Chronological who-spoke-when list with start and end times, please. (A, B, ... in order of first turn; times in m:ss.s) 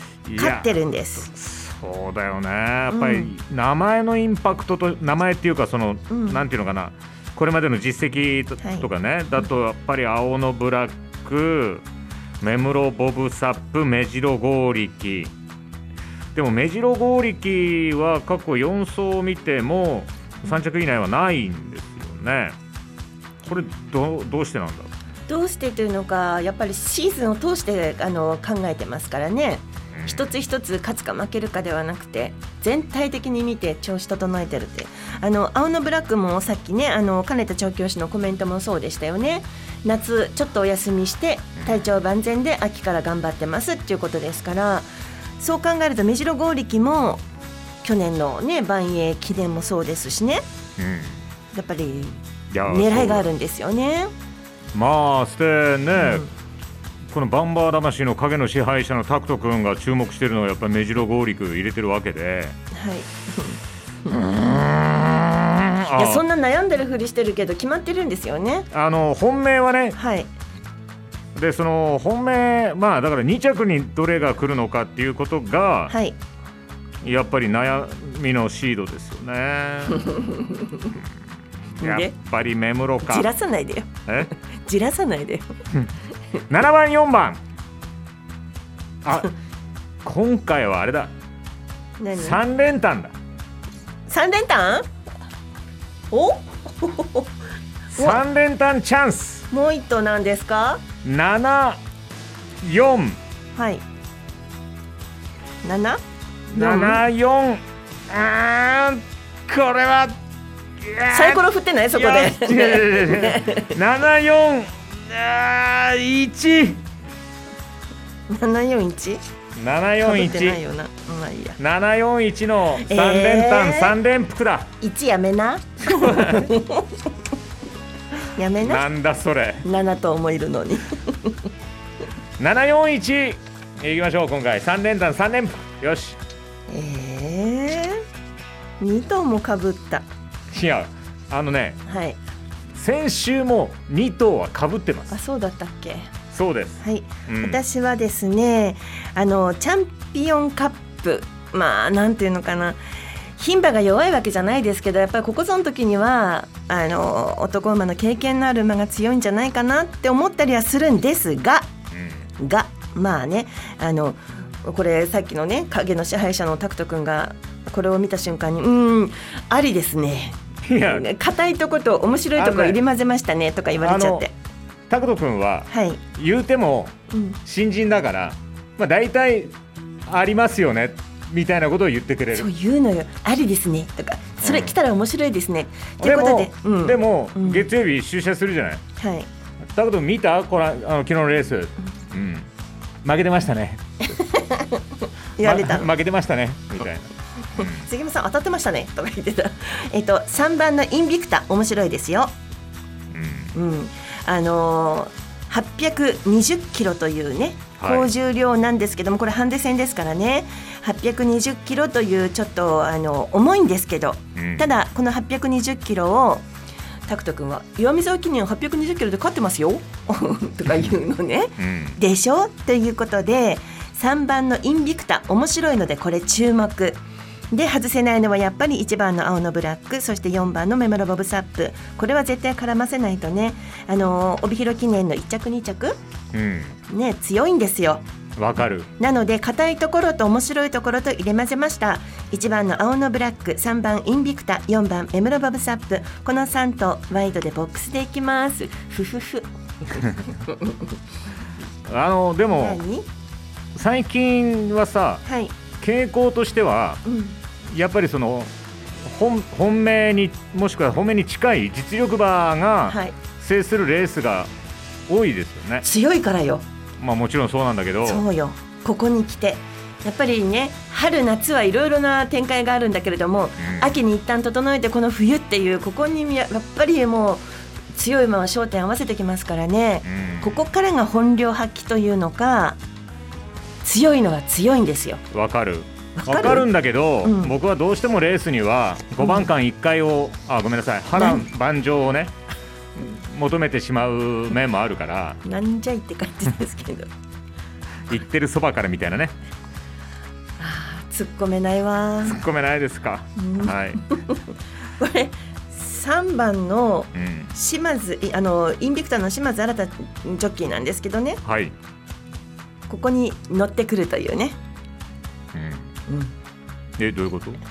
0:00.3-0:11.8 A
0:00.4-0:01.3 B
0:02.9-0:03.3 B
0:06.1-0:06.4 B
0:12.4-0:15.3 A
0:16.4-0:22.6 A
0:23.5-0:24.9 A
0:25.3-0:47.2 B
0:29.9-0:30.3 A
0:41.6-0:41.9 A
0:47.8-0:50.4 B
0:50.8-0:51.2 A
0:51.5-0:54.1 B
0:52.5-0:53.3 A
0:54.7-0:56.3 A
0:56.0-0:56.3 B
0:57.1-1:02.6 A
1:02.7-1:03.6 B
1:04.1-1:06.2 A
1:06.0-1:08.7 B
1:08.7-1:10.0 A
1:10.0-1:10.3 B
1:11.4-1:15.9 A
1:15.9-1:16.2 B
1:17.0-1:20.1 A
1:21.8-1:23.3 A
1:21.8-1:22.1 B
1:23.0-1:23.9 B
1:24.6-1:25.5 B
1:26.5-1:27.4 A
1:29.0-1:29.3 A
1:30.0-1:31.1 A
1:32.0-1:32.4 B
1:32.1-1:33.1 A
1:34.1-1:34.9 B
1:36.1-1:37.3 B
1:37.9-1:39.5 A
1:39.5-1:40.8 B
1:41.0-1:41.8 A
1:42.6-1:43.2 A
1:43.6-1:43.8 B
1:45.6-1:46.0 B
1:46.5-1:50.2 A
1:46.5-1:47.0 B
1:50.8-1:56.8 A
1:51.1-1:53.7 B
1:58.3-1:59.2 B
1:59.6-2:00.6 A
2:00.0-2:01.6 B
2:01.6-2:04.7 A
2:02.9-2:03.9 B
2:04.8-2:06.9 B
2:06.0-2:06.5 A
2:08.4-2:08.8 B
2:08.6-2:09.6 A
2:09.6-2:11.3 B
2:12.4-2:16.2 A
2:16.7-2:18.0 B
2:18.8-2:20.0 B
2:20.5-2:21.8 A
2:21.9-2:22.2 B
2:22.8-2:25.2 A
2:25.1-2:26.1 B
2:26.3-2:27.6 A
2:26.8-2:32.8 B
2:33.4-2:41.7 B
2:41.9-2:42.2 A
2:42.4-2:54.3 B
2:50.7-2:51.0 A
2:52.4-2:52.8 A
2:53.8-2:54.2 A
2:54.9-2:59.5 A
2:55.7-2:56.0 B
2:57.1-2:57.4 B
3:00.1-3:02.5 A
3:02.3-3:07.7 B
3:04.4-3:04.8 A
3:06.0-3:08.8 A
3:09.0-3:09.3 B
3:09.8-3:12.5 A
3:13.0-3:13.8 A
3:14.2-3:14.8 B
3:15.4-3:15.9 B
3:15.4-3:17.9 A
3:17.6-3:22.3 B
3:23.1-3:23.5 A
3:23.6-3:36.5 B
3:27.8-3:28.1 A
3:34.4-3:34.7 A
3:37.1-3:56.0 B
3:41.6-3:42.0 A
3:56.3-3:56.8 A
3:56.9-3:58.0 B
3:58.4-3:58.9 A
3:59.0-4:09.5 B
4:10.5-4:10.8 B
4:11.9-4:12.8 A
4:12.5-4:13.1 B
4:13.8-4:15.2 A
4:15.3-4:15.5 B
4:15.8-4:17.0 A
4:17.1-4:17.4 B
4:17.7-4:18.5 A
4:19.0-4:24.5 A
4:22.9-4:23.2 B
4:25.1-4:25.9 A
4:25.8-4:26.6 B
4:27.0-4:28.2 A
4:28.0-4:42.8 B
4:33.6-4:34.0 A
4:40.0-4:40.6 A
4:43.8-4:45.2 B
4:45.3-4:52.3 A
4:46.2-4:46.6 B
4:47.2-4:47.5 B
4:49.2-4:49.5 B
4:51.2-4:51.4 B
4:53.2-4:55.4 A
4:55.4-4:57.1 B
4:58.1-4:59.4 A
5:00.6-5:02.4 B
5:02.2-5:04.0 A
5:03.4-5:04.4 B
5:05.0-5:11.4 B
5:07.2-5:07.5 A
5:11.4-5:11.7 A
5:12.9-5:14.6 B
5:15.5-5:15.9 A
5:16.1-5:16.3 B
5:17.0-5:17.6 A